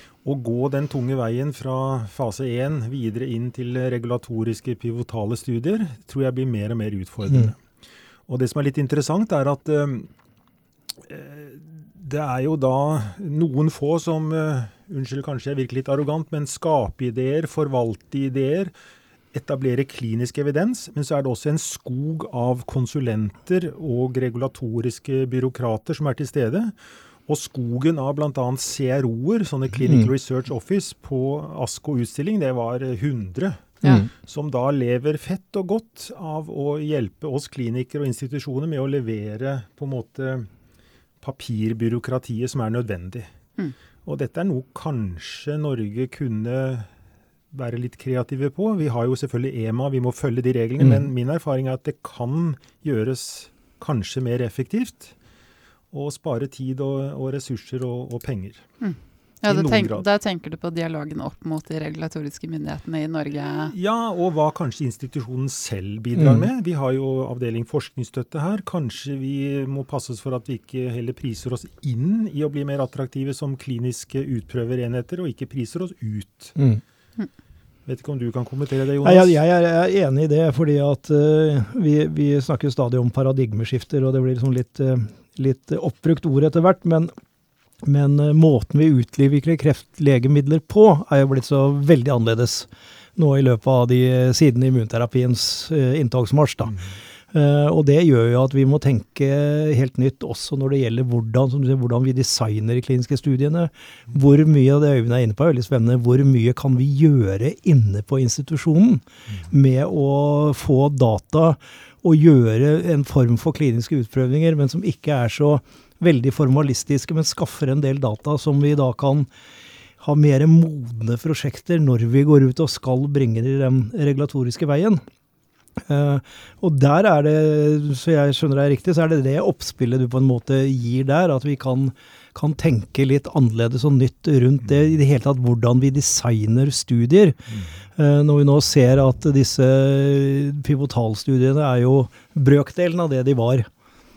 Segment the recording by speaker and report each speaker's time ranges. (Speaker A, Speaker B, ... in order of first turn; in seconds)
Speaker A: 0.2-7.6, 8.3-10.1, 11.1-18.7, 19.3-40.5, 41.2-43.3, 44.0-46.9, 47.5-55.1, 55.9-58.7, 59.5-60.1, 63.7-76.6, 77.9-79.4
Speaker B: 29.8-30.1, 33.8-34.1, 50.8-51.1, 66.2-66.5, 76.6-76.8, 79.0-87.1, 87.8-96.8, 97.3-119.3, 120.0-125.0, 125.9-137.4, 138.0-143.7
Speaker C: 58.8-63.7